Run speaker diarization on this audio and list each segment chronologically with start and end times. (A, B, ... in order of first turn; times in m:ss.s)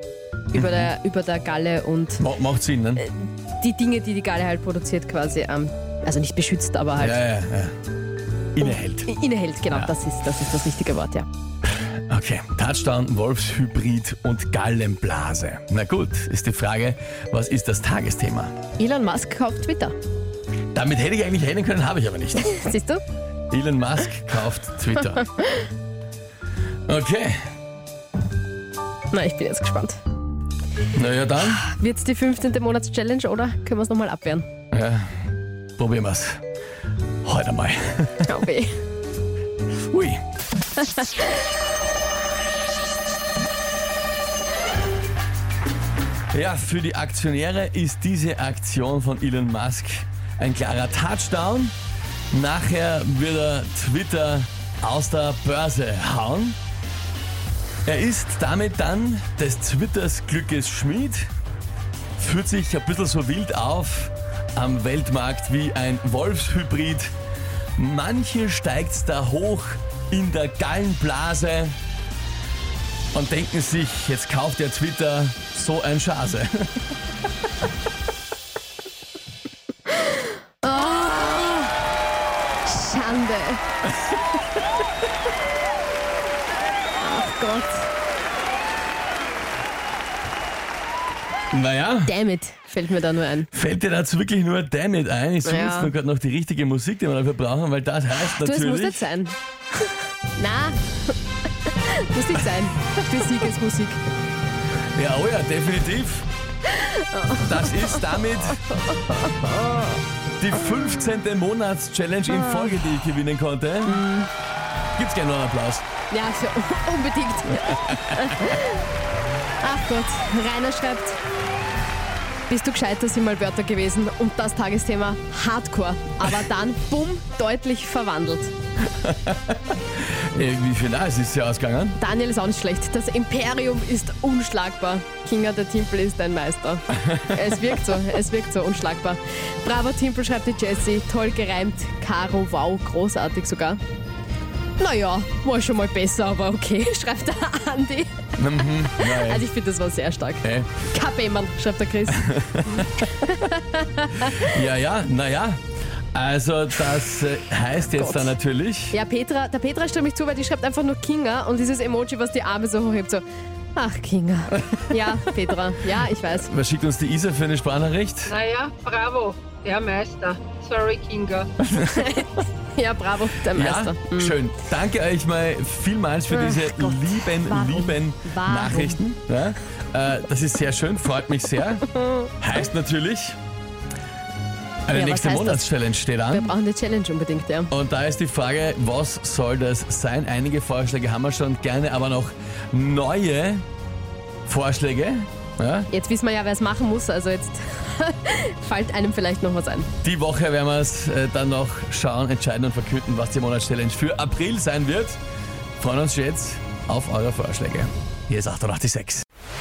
0:00.5-0:02.2 A
0:00.5-0:00.9 B
0:02.2-0:03.1 B
0:03.0-0:07.2 A
0:07.0-0:07.7 B
0:08.5-0:09.1 B
0:08.6-0:11.3 A
0:12.1-0:18.5 B
0:18.8-0:20.0 A
0:20.7-0:22.6 B
0:22.4-0:23.0 A
0:23.5-0:25.3 B
0:26.9-0:27.4 B
0:29.1-0:30.0 A
0:30.9-0:31.6 B
0:31.4-0:34.5 A
0:34.7-0:35.2 B
0:35.8-0:36.4 B
0:37.2-0:38.4 B
0:38.3-0:38.8 A
0:39.9-0:40.2 B
0:46.3-0:51.7 B
0:52.3-0:56.6 B
0:57.9-1:01.3 B
1:02.2-1:07.1 B
1:07.8-1:11.8 B
1:13.1-1:16.8 B
1:19.9-1:21.8 A
1:22.6-1:23.6 A
1:27.0-1:27.9 A
1:31.5-1:32.1 B
1:32.0-1:33.5 A
1:33.5-1:39.0 B
1:35.4-1:35.9 A
1:38.2-1:41.1 A
1:41.6-1:44.0 A
1:45.0-1:46.3 B
1:46.7-1:48.2 A
1:47.4-1:48.6 B
1:48.8-1:50.0 A
1:50.4-1:54.0 B
1:52.3-1:52.8 A
1:53.9-1:54.3 A
1:55.0-1:55.8 B
1:56.1-1:58.8 A
1:57.9-1:58.2 B
1:59.6-2:01.2 A
2:02.5-2:08.5 A
2:08.8-2:12.0 B
2:12.0-2:23.8 A
2:24.8-2:34.6 A
2:28.4-2:29.5 B
2:30.4-2:30.7 B
2:32.2-2:32.9 B
2:34.2-2:35.6 B
2:36.1-2:39.0 B
2:38.0-2:38.3 A
2:38.9-2:43.2 A
2:43.8-2:46.5 A
2:46.3-2:48.3 B
2:48.3-2:51.5 C
2:51.6-2:52.1 B
2:51.8-2:54.4 A
2:53.5-3:01.9 B
2:56.3-2:59.0 A
3:02.4-3:03.4 B
3:04.9-3:06.5 B
3:04.9-3:05.7 A
3:06.3-3:07.7 A
3:07.7-3:13.6 B
3:14.5-3:15.9 B
3:15.9-3:19.9 A
3:20.0-3:25.2 B
3:25.8-3:29.2 B